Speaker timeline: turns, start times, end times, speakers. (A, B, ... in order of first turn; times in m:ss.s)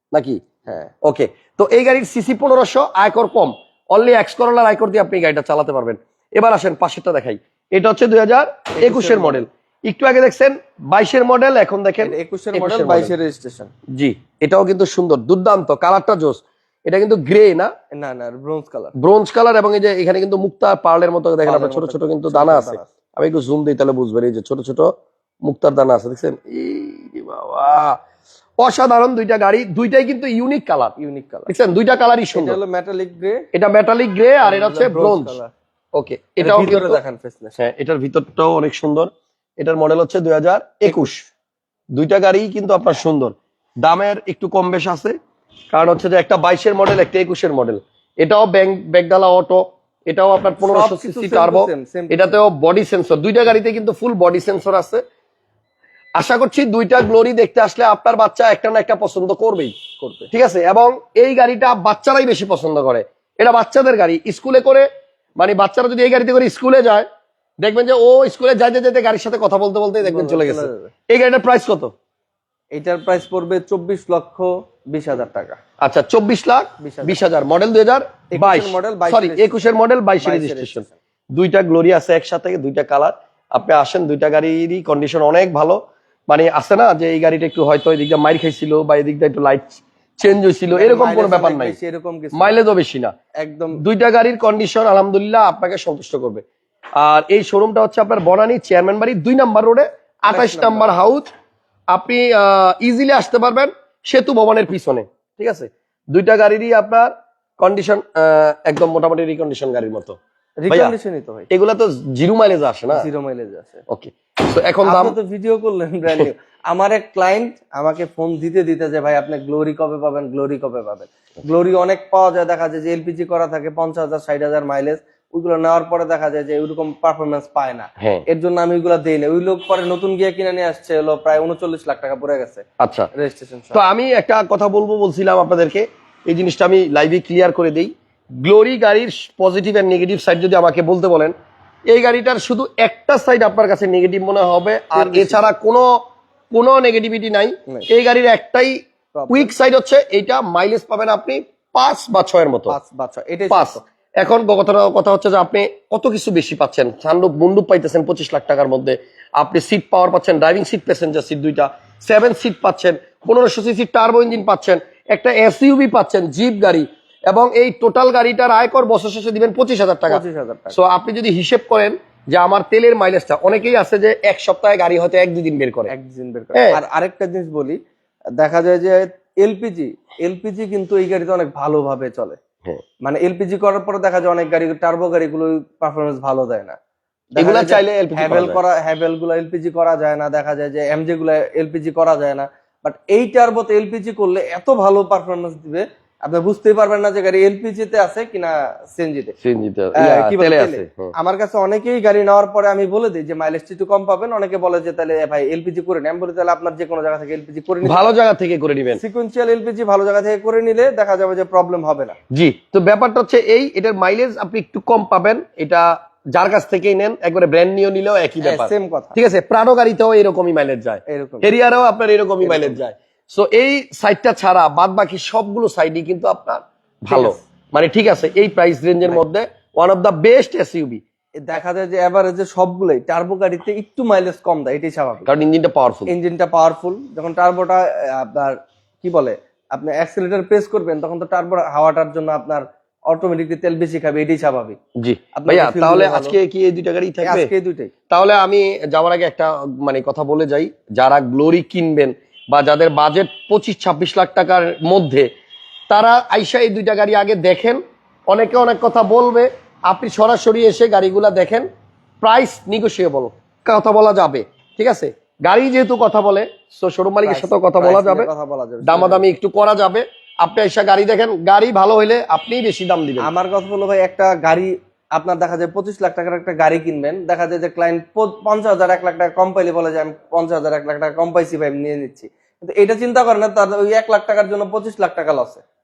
0:00.1-0:00.4 A
0:01.0-0:13.1 A
0:08.8-0:09.4 B
0:12.0-0:13.7 B
0:13.9-0:17.7 A
0:17.9-0:18.9 B
0:19.0-0:24.9 A
0:21.4-0:22.9 B
0:25.4-0:28.0 A
0:28.6-0:30.9 A
0:31.0-0:31.5 B
0:31.5-0:32.6 A
0:32.3-0:33.5 B
0:33.5-0:35.4 A
0:34.4-0:35.5 B
0:35.9-0:37.0 A
0:36.4-0:37.6 B
0:37.6-0:41.3 A
0:40.8-0:41.1 B
0:41.9-0:45.2 A
0:45.7-0:55.0 A
0:50.6-0:52.4 B
0:56.2-0:59.8 A
1:00.0-1:00.3 B
1:00.3-1:04.9 A
1:05.4-1:07.1 A
1:07.6-1:11.9 A
1:10.0-1:10.9 B
1:12.7-1:15.6 B
1:15.8-1:31.8 A
1:16.8-1:17.2 B
1:18.3-1:19.6 B
1:20.2-1:20.9 B
1:30.7-1:32.6 B
1:32.3-1:33.1 A
1:33.4-1:33.8 B
1:33.8-1:36.4 A
1:37.0-1:41.3 A
1:40.3-1:41.0 B
1:41.9-1:50.2 A
1:50.6-1:51.5 B
1:50.7-1:50.9 A
1:51.5-1:53.0 A
1:52.9-1:53.8 B
1:53.9-1:55.2 A
1:54.8-2:12.6 B
2:12.8-2:13.1 A
2:13.2-2:13.8 B
2:13.7-2:21.3 A
2:21.9-2:25.9 A
2:24.9-2:25.5 B
2:26.5-2:28.8 A
2:29.1-2:29.5 B
2:29.3-2:32.8 A
2:32.7-2:33.8 B
2:33.5-2:55.9 A
2:50.1-2:50.8 B
2:55.9-2:57.8 B
2:56.5-2:56.8 A
2:58.4-3:02.4 B
3:03.0-3:06.8 B
3:07.3-3:19.4 B
3:07.4-3:08.6 A
3:19.4-3:21.1 A
3:20.0-3:28.1 B
3:27.8-3:29.0 A
3:29.0-3:32.2 B
3:32.3-3:51.0 A
3:38.4-3:39.2 B
3:41.1-3:41.5 B
3:42.4-3:42.8 B
3:47.1-3:47.4 B
3:51.4-3:55.3 B
3:55.3-3:56.1 A
3:56.1-4:04.8 B
4:05.0-4:07.5 A
4:05.4-4:06.4 B
4:07.2-4:07.9 B
4:08.1-4:15.3 A
4:15.9-4:21.7 A
4:22.2-4:28.3 A
4:27.2-4:29.3 B
4:28.8-4:33.3 A
4:33.2-4:45.6 B